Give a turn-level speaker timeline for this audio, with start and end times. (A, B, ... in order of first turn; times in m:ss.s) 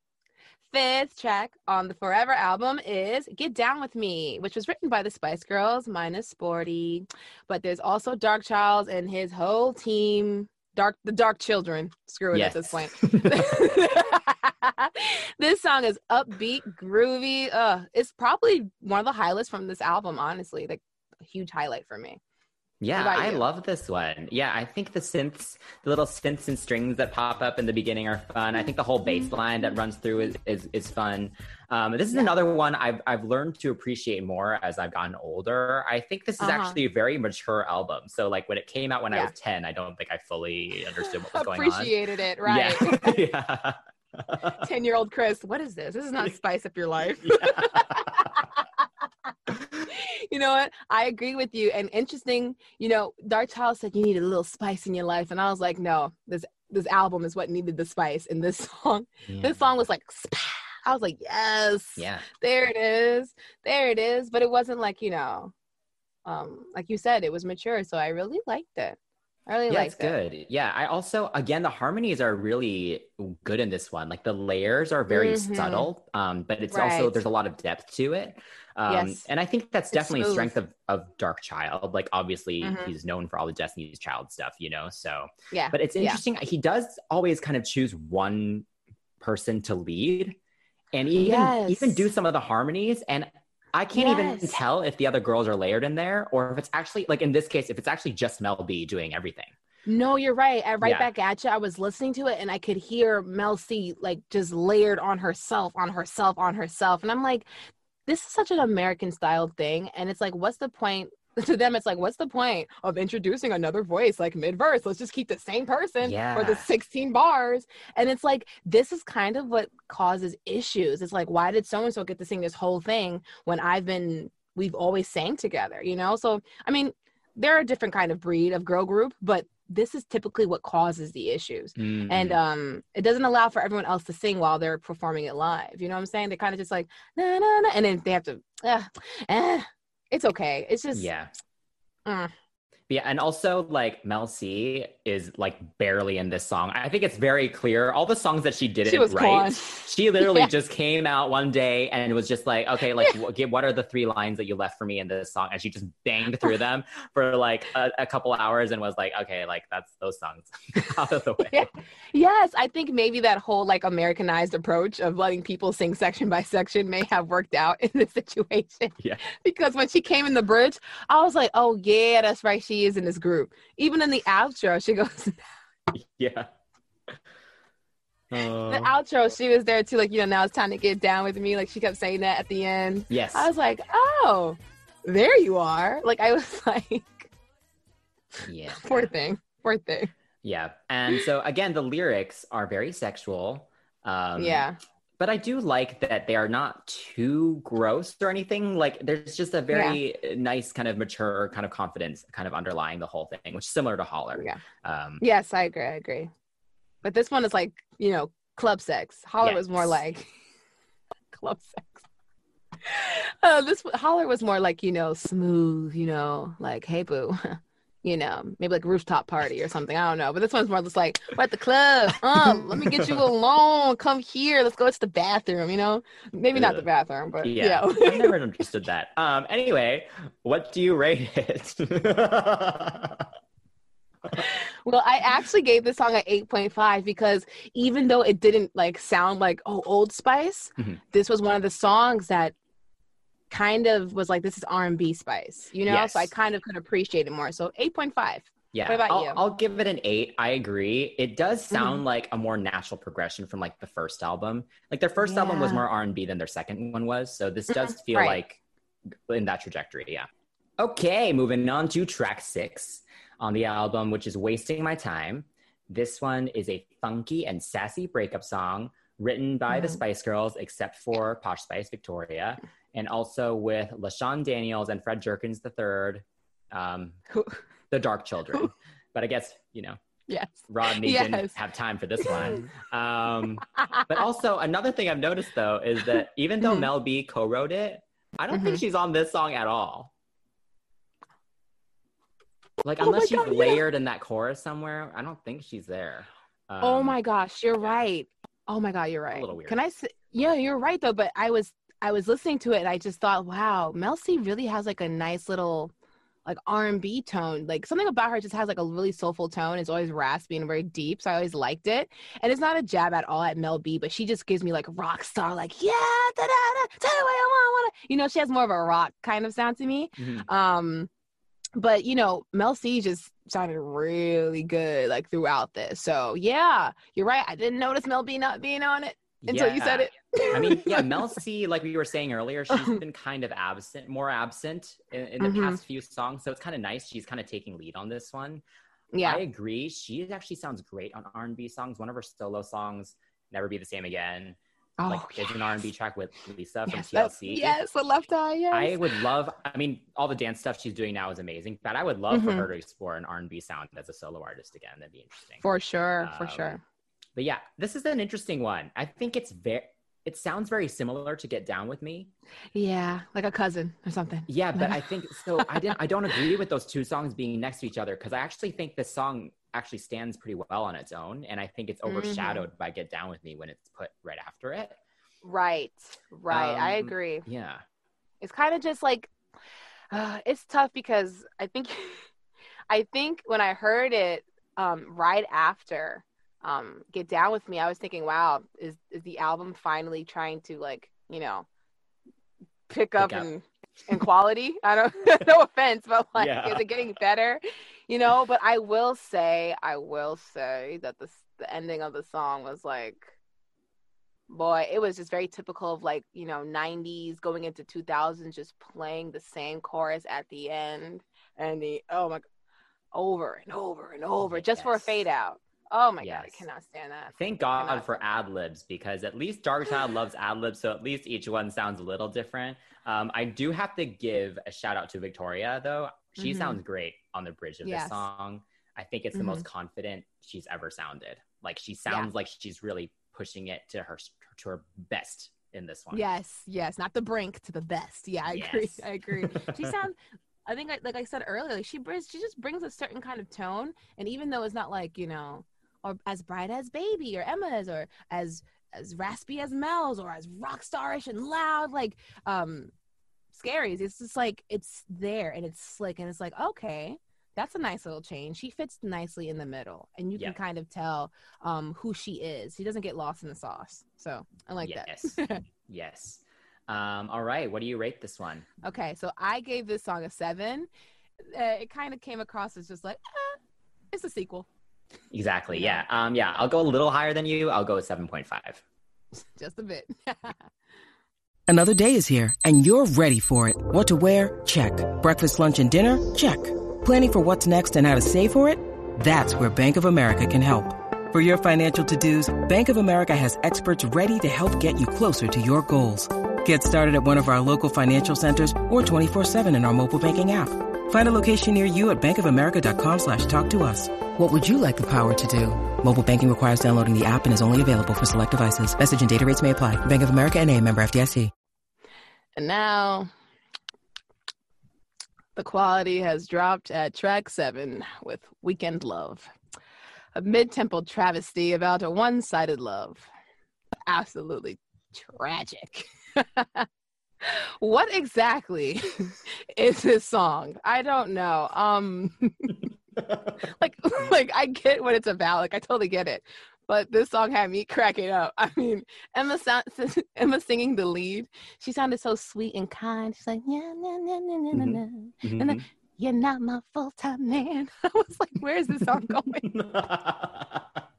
0:00.7-0:22.2 A
0:12.3-0:13.5 B
0:22.8-0:44.6 B
0:23.0-0:23.4 A
0:36.4-0:36.8 A
0:41.3-0:43.2 A
0:44.6-0:48.6 A
0:47.3-0:48.0 B
0:49.9-1:05.5 A
0:59.3-0:59.6 B
1:02.0-1:02.2 B
1:06.3-1:09.0 A
1:09.5-1:10.1 A
1:09.7-1:28.7 B
1:15.1-1:15.9 A
1:16.7-1:17.2 A
1:18.9-1:19.2 A
1:19.9-1:20.5 A
1:22.6-1:22.9 A
1:25.5-1:26.2 A
1:29.2-1:30.4 B
1:30.9-1:39.5 B
1:31.2-1:32.1 A
1:33.9-1:34.6 A
1:39.9-1:47.5 A
1:40.8-1:41.1 B
1:48.1-2:21.1 A
1:56.0-1:56.7 B
2:11.8-2:12.4 B
2:20.9-2:21.3 B
2:22.1-2:22.3 A
2:22.9-2:41.7 B
2:28.9-2:30.5 A
2:41.5-2:55.4 A
2:55.9-2:56.5 B
2:58.3-2:58.9 B
2:58.7-3:07.3 A
3:03.1-3:03.5 B
3:08.4-3:09.1 B
3:08.7-3:10.1 A
3:10.4-3:14.6 B
3:14.4-3:14.8 A
3:15.2-3:25.2 B
3:19.7-3:20.0 A
3:25.2-3:26.3 A
3:27.0-3:30.3 A
3:29.4-3:30.0 B
3:31.3-3:32.0 A
3:32.8-3:48.4 A
3:42.4-3:43.2 B
3:46.5-3:46.8 B
3:47.4-3:53.3 B
3:54.4-4:02.5 A
4:03.5-4:09.4 A
4:05.8-4:06.3 B
4:08.7-4:18.6 B
4:11.7-4:12.0 A
4:15.2-4:15.8 A
4:17.8-4:18.4 A
4:19.3-4:20.3 B
4:20.8-4:37.2 B
4:29.7-4:30.0 A
4:37.3-4:37.6 A
4:37.9-4:40.0 B
4:40.3-4:41.6 A
4:40.7-4:50.1 B
4:42.2-4:42.6 A
4:48.5-4:48.8 A
4:52.8-4:57.2 B
4:53.0-4:53.8 A
4:56.8-5:05.9 A
4:59.3-4:59.8 B
5:06.4-5:21.1 A
5:20.2-5:20.5 B
5:21.8-5:31.2 A
5:29.4-5:38.6 B
5:35.4-5:35.8 A
5:39.1-5:39.4 A
5:39.2-5:47.8 B
5:45.0-5:45.8 A
5:46.9-5:49.0 A
5:48.7-5:55.6 B
5:52.3-5:52.7 A
5:55.6-5:56.8 A
5:56.2-5:56.8 B
5:57.4-6:02.3 B
6:02.8-6:05.0 A
6:04.5-6:15.0 B
6:05.6-6:05.9 A
6:12.1-6:12.7 A
6:15.4-6:17.5 A
6:16.5-6:17.8 B
6:18.4-6:19.3 A
6:20.1-6:22.2 A
6:22.9-6:31.7 A
6:32.9-6:43.3 A
6:33.2-6:33.5 B
6:36.4-6:36.9 B
6:44.5-6:52.4 A
6:53.1-6:58.2 A
6:54.4-6:55.2 B
6:56.2-6:56.6 B
6:57.4-7:16.2 B
7:06.4-7:06.8 A
7:07.8-7:08.2 A
7:09.3-7:09.6 A
7:16.1-7:32.9 A
7:18.5-7:19.9 B
7:33.5-7:45.6 A
7:44.8-7:45.4 B
7:45.9-7:48.7 B
7:48.8-7:50.9 A
7:51.5-7:53.6 A
7:54.1-7:54.7 A
7:55.3-7:58.8 B
7:55.7-7:56.0 A
7:59.3-8:00.6 A
8:01.7-8:31.5 C
8:32.6-8:33.3 A
8:35.6-8:39.5 A
8:40.4-8:43.3 A
8:44.1-8:46.9 A
8:47.4-8:52.8 A
8:53.6-9:09.7 A
9:04.7-9:05.8 B
9:09.6-9:11.0 B